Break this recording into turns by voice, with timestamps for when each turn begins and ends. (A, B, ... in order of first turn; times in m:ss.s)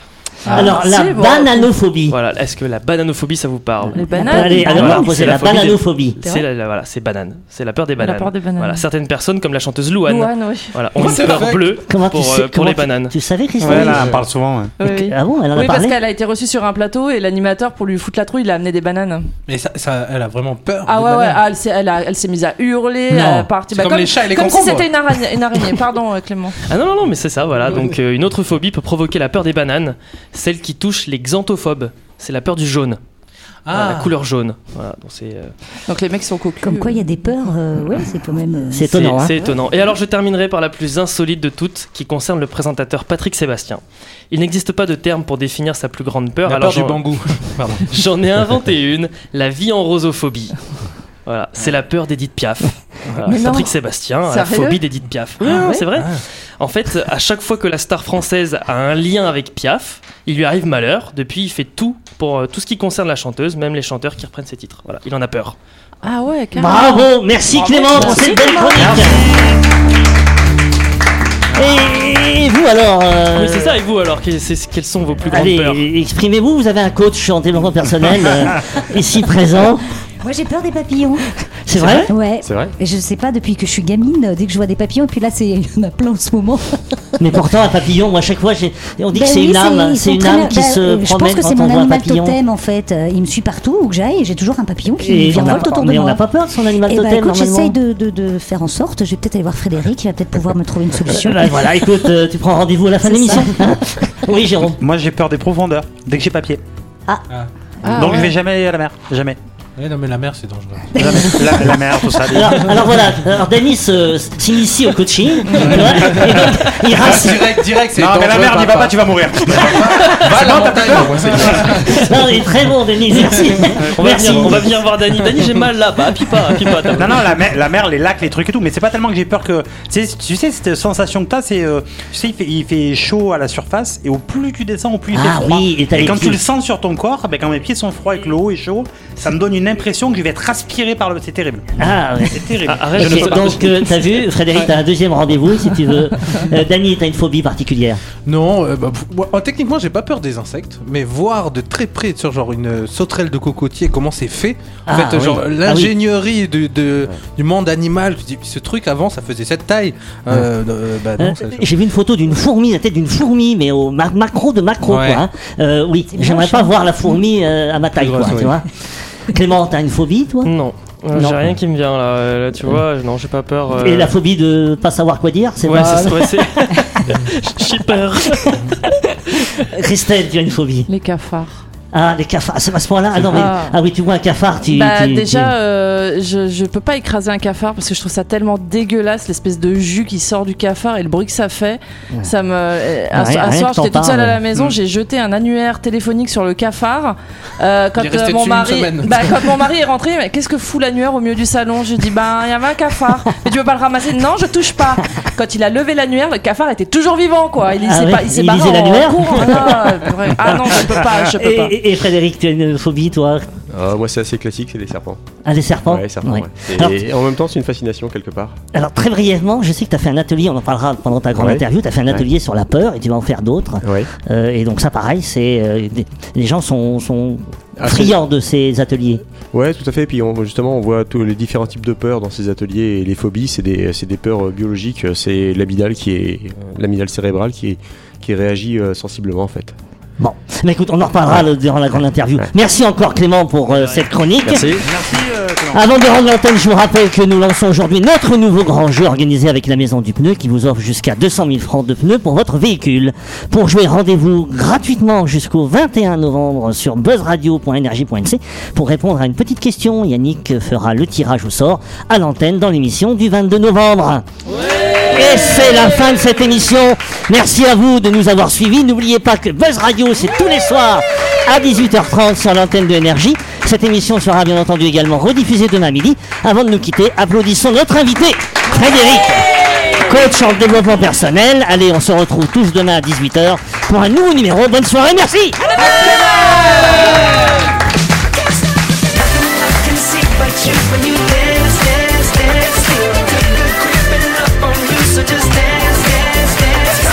0:00.4-0:00.8 A
0:00.5-0:01.7 B
0:00.5-0:02.2 C
0:02.1-0:13.1 D
0:03.9-0:05.3 B
0:04.1-0:04.9 E
0:04.3-0:06.2 C
0:06.2-0:06.4 B
0:08.0-0:08.8 B
0:10.0-0:11.4 B
0:10.9-0:11.8 A
0:11.9-0:14.2 C
0:13.6-0:14.7 F
0:13.6-0:14.2 G
0:14.8-0:19.3 B
0:14.8-0:16.0 C
0:19.5-0:21.4 A
0:20.8-0:26.6 B
0:23.1-0:23.5 C
0:23.2-0:25.6 A
0:26.6-0:33.0 D
0:33.6-0:34.1 A
0:33.7-0:35.5 D
0:35.9-0:37.0 B
0:36.6-0:38.9 E
0:38.7-0:39.3 C
0:38.9-0:47.1 D
0:46.4-0:47.9 A
0:47.8-0:50.6 D
0:51.2-1:05.6 D
0:53.2-0:54.8 B
0:55.4-0:55.9 B
0:55.4-0:56.2 A
1:06.0-1:08.9 B
1:06.6-1:09.3 C
1:07.9-1:09.1 E
1:11.5-1:13.8 C
1:13.3-1:15.8 D
1:15.2-1:19.9 C
1:20.2-1:21.4 E
1:21.6-1:22.1 C
1:21.7-1:22.1 D
1:22.0-1:26.8 E
1:22.4-1:22.7 G
1:27.2-1:32.4 C
1:29.1-1:36.2 E
1:35.0-1:37.8 C
1:36.8-1:41.7 E
1:41.1-1:44.8 C
1:43.0-1:43.7 E
1:44.8-1:46.6 F
1:47.8-1:48.3 B
1:47.8-1:49.4 F
1:49.8-1:51.1 A
1:51.0-1:52.7 F
1:51.0-1:51.3 E
1:52.2-1:57.6 C
1:55.5-2:02.2 A
1:58.0-2:01.9 F
2:01.6-2:04.7 C
2:03.9-2:07.3 D
2:07.0-2:23.6 F
2:15.1-2:16.4 C
2:21.8-2:28.0 C
2:22.6-2:23.8 D
2:28.2-2:41.7 A
2:34.9-2:35.9 C
2:41.2-2:48.7 C
2:44.9-2:45.2 A
2:46.1-2:47.2 E
2:48.2-2:48.5 G
2:49.3-2:50.5 C
2:50.4-2:54.1 D
2:51.1-2:51.5 C
2:53.8-2:56.4 C
2:55.6-2:58.7 D
2:59.6-3:00.9 C
3:00.9-3:01.6 B
3:01.9-3:05.5 C
3:03.3-3:03.8 B
3:04.7-3:31.7 B
3:13.1-3:14.4 C
3:18.0-3:19.6 A
3:27.8-3:33.5 C
3:33.7-3:35.2 G
3:35.4-3:37.0 C
3:35.8-3:38.6 G
3:38.7-3:49.2 C
3:41.4-3:42.3 G
3:43.8-3:44.1 G
3:47.8-3:48.2 G
3:49.5-3:59.7 G
4:00.2-4:04.9 C
4:03.7-4:04.0 D
4:04.4-4:04.8 G
4:04.7-4:05.8 F
4:05.7-4:24.2 C
4:25.0-4:45.7 C
4:54.8-4:55.6 E